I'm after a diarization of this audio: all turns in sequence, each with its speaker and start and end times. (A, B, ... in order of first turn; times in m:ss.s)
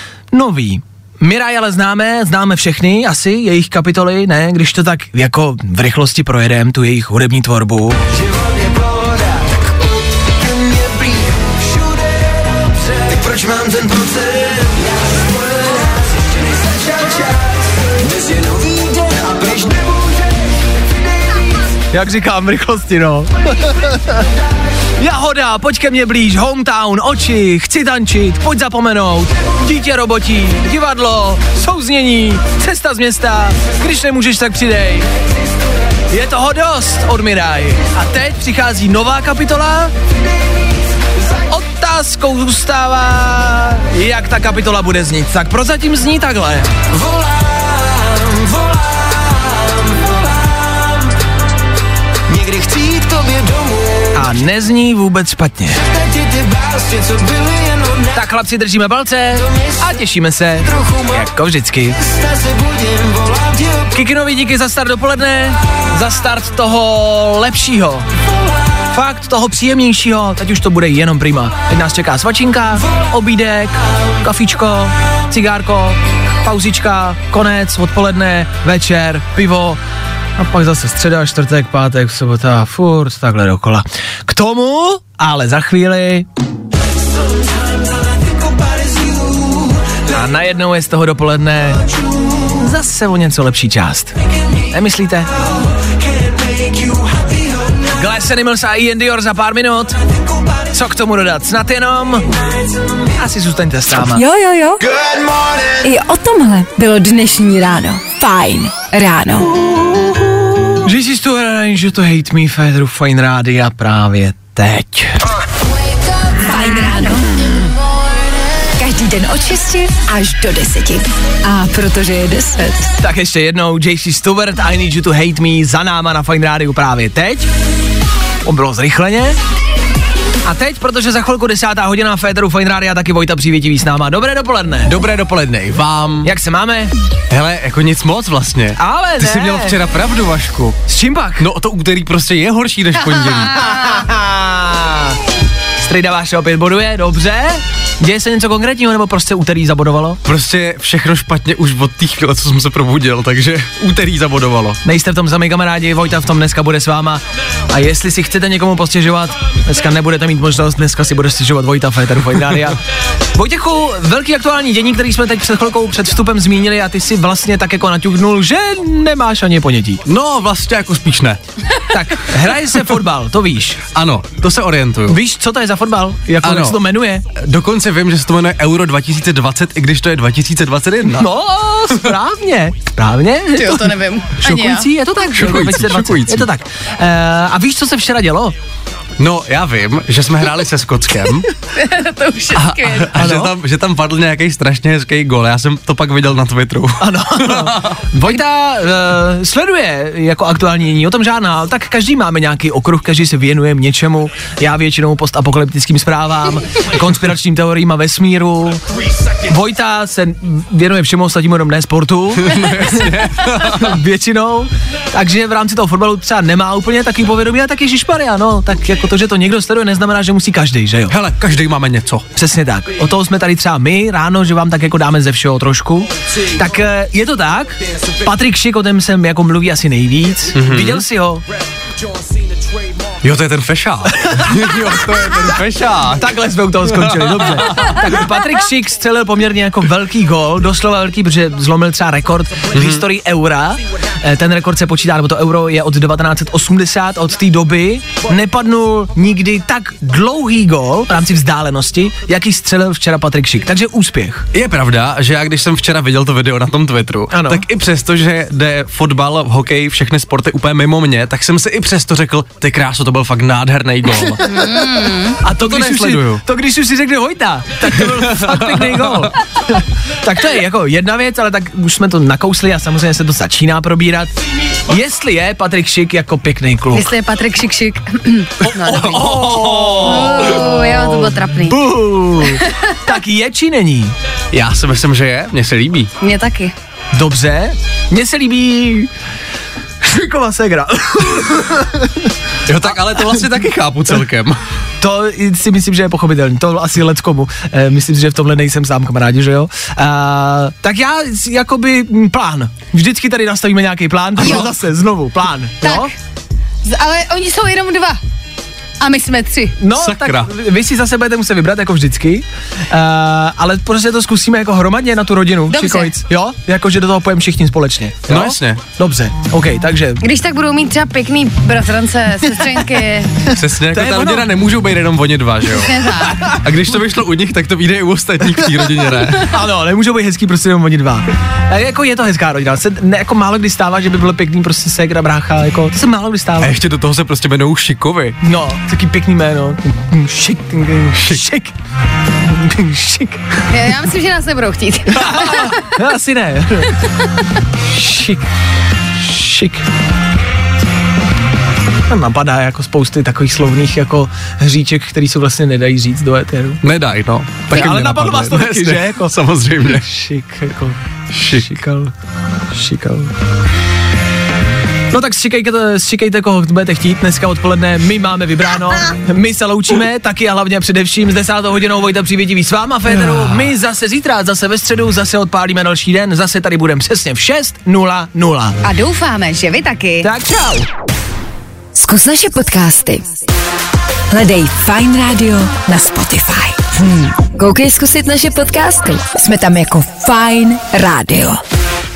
0:00.3-0:08.0 A
0:13.4-0:13.7 B
0:19.1-0:19.6 B
0:21.9-0:24.2 A
0:25.0-0:35.1 A
0:36.1-0:39.9 A
0:41.5-0:46.8 A
0:52.3-0:53.7 B
0:54.1-0:55.8 A
0:56.4-0:57.6 B
0:58.1-1:02.0 A
1:03.9-1:08.0 A
1:08.9-1:19.8 A
1:20.4-1:26.2 A
1:30.1-1:31.9 A
1:32.5-1:34.1 A
1:34.7-1:35.3 A
1:37.9-1:40.0 A
1:40.7-1:42.3 A
1:43.2-1:44.2 A
1:44.1-1:44.8 C
1:44.8-1:45.9 B
1:45.8-1:49.6 C
1:50.8-1:55.2 A
1:56.4-1:57.3 C
1:58.8-2:02.9 C
2:03.0-2:07.5 A
2:08.4-2:09.4 A
2:10.4-2:15.0 A
2:14.8-2:16.3 D
2:16.2-2:16.9 A
2:17.3-2:20.8 D
2:18.8-2:19.8 A
2:20.9-2:21.5 A
2:21.4-2:23.6 D
2:23.1-2:25.2 A
2:25.8-2:30.2 A
2:30.2-2:34.8 D
2:34.8-2:42.8 A
2:43.3-2:50.0 A
2:50.0-2:51.4 D
2:51.8-2:53.8 A
2:53.9-2:55.2 D
2:55.1-2:57.2 A
2:56.4-3:01.3 D
3:01.0-3:08.5 A
3:03.6-3:04.9 E
3:05.3-3:06.5 D
3:09.2-3:11.5 D
3:11.6-3:13.1 E
3:12.5-3:13.5 A
3:12.7-3:17.9 D
3:17.0-3:28.8 A
3:29.4-3:41.2 A
3:32.4-3:34.0 D
3:41.1-3:42.3 D
3:42.3-3:51.4 A
3:50.5-3:51.0 D
3:53.2-3:56.3 D
3:54.2-3:54.9 A
3:55.9-4:14.5 A
3:56.8-3:58.3 D
4:02.7-4:03.0 D
4:14.5-4:24.4 D
4:17.3-4:17.6 A
4:24.2-4:34.3 A
4:24.5-4:25.3 E
4:25.5-4:26.4 D
4:28.0-4:29.3 D
4:34.9-4:37.1 A
4:36.9-4:41.8 E
4:38.6-4:44.1 A
4:44.5-4:46.1 D
4:46.2-4:46.7 E
4:47.1-4:49.1 A
4:50.0-4:54.2 A
4:52.7-4:54.6 D
4:55.0-5:06.1 A
5:05.8-5:06.1 E
5:06.8-5:08.2 E
5:09.0-5:09.8 E
5:09.8-5:20.2 A
5:09.9-5:10.5 D
5:15.7-5:16.1 E
5:18.3-5:18.8 D
5:20.2-5:23.3 E
5:23.5-5:24.5 A
5:23.5-5:29.5 D
5:25.6-5:26.4 E
5:28.6-5:36.8 A
5:36.6-5:38.4 D
5:38.4-5:41.7 A
5:42.4-5:43.6 A
5:43.7-5:45.8 E
5:45.1-5:47.0 A
5:47.9-5:48.4 A
5:49.2-5:49.8 A
5:52.1-5:56.8 A
5:56.8-6:00.0 D
5:57.7-6:01.0 A
6:01.3-6:01.8 D
6:01.5-6:02.1 A
6:02.7-6:03.3 A
6:05.1-6:18.8 A
6:18.8-6:20.3 E
6:20.2-6:20.8 A
6:21.9-6:23.3 C
6:24.3-6:31.6 C